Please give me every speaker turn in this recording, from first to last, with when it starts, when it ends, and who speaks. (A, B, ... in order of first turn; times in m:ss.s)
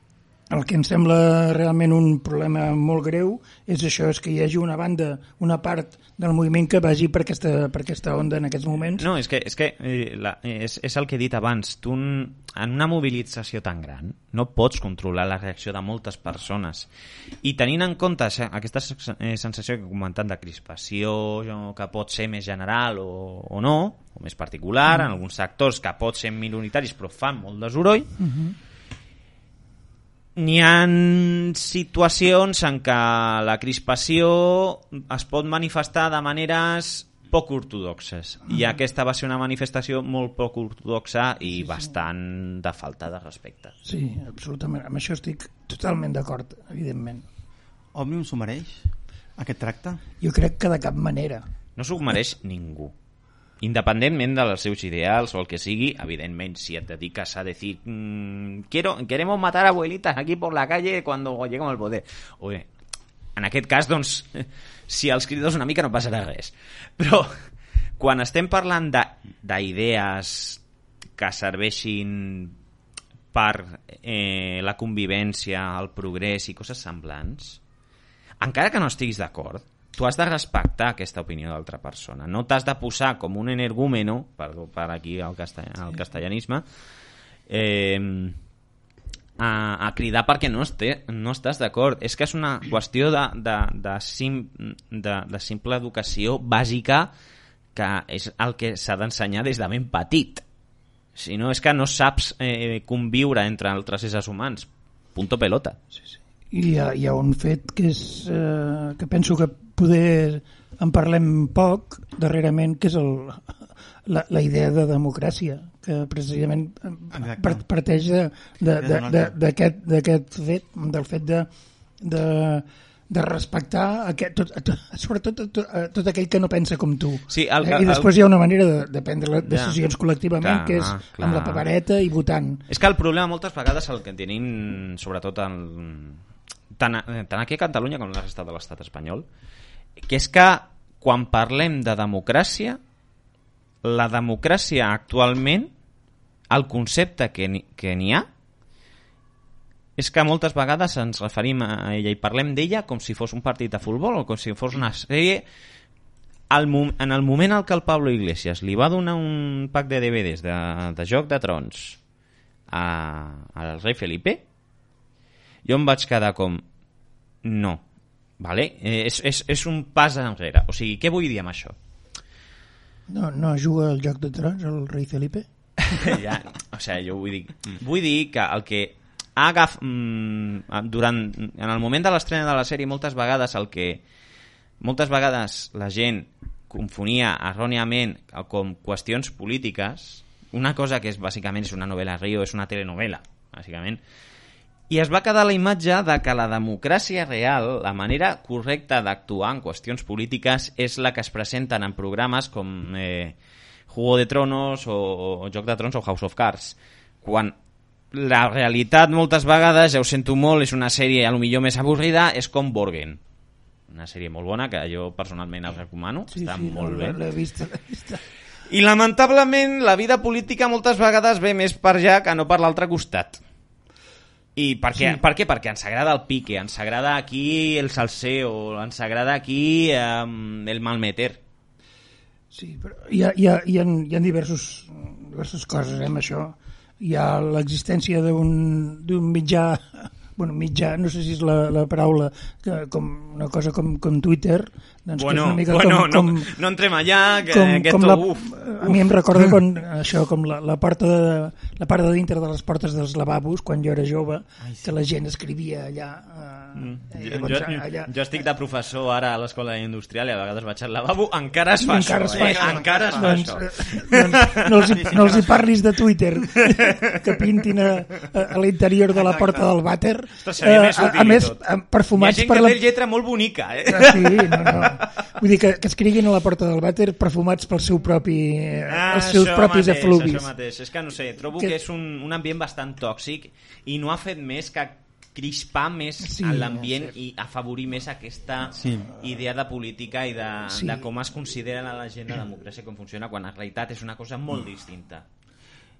0:00.5-0:09.1 A
0:09.0-0:16.9 B
0:17.4-0:28.2 B
0:28.2-0:28.6 A
0:30.4-0:43.7 B
0:41.5-0:41.9 A
0:43.8-0:47.3 A
0:48.0-0:50.0 C
0:50.2-0:51.4 A
0:51.8-0:52.9 B
0:53.6-1:02.7 B
1:03.4-1:07.4 B
1:08.0-1:10.6 B
1:11.2-1:12.6 B
1:13.3-1:17.6 B
1:18.4-1:26.6 B
1:27.5-1:28.4 B
1:29.4-1:37.1 B
1:37.8-1:40.4 B
1:41.2-1:45.8 B
1:46.1-1:53.4 A
1:54.1-2:01.5 A
1:57.1-1:57.6 C
1:58.7-1:59.3 C
2:02.0-2:12.6 A
2:07.3-2:08.1 B
2:09.4-2:09.8 B
2:10.4-2:11.6 B
2:12.7-2:16.2 B
2:16.8-2:19.3 B
2:20.0-2:22.8 B
2:23.8-2:25.7 B
2:26.5-2:28.3 B
2:30.0-2:35.5 B
2:36.5-2:42.0 B
2:42.7-2:44.4 B
2:45.6-2:46.6 B
2:47.4-2:47.8 B
2:48.4-2:51.8 B
2:53.1-2:55.5 A
2:55.9-3:04.0 B
3:04.8-3:14.0 B
3:14.9-3:23.4 B
3:23.9-3:27.6 B
3:28.1-3:33.2 B
3:33.9-3:37.2 B
3:36.3-3:38.2 A
3:38.7-3:43.4 B
3:44.6-3:51.4 B
3:44.9-3:45.2 A
3:52.5-4:06.5 A
4:05.1-4:09.6 B
4:07.5-4:18.1 A
4:14.6-4:14.9 C
4:16.8-4:24.7 B
4:21.8-4:32.8 A
4:22.3-4:23.6 C
4:24.8-4:25.5 C
4:29.1-4:29.7 C
4:30.4-4:31.6 B
4:32.2-4:35.1 B
4:33.9-4:40.5 A
4:38.9-4:55.2 B
4:46.2-4:47.2 A
4:48.8-4:49.1 C
4:50.7-4:51.0 A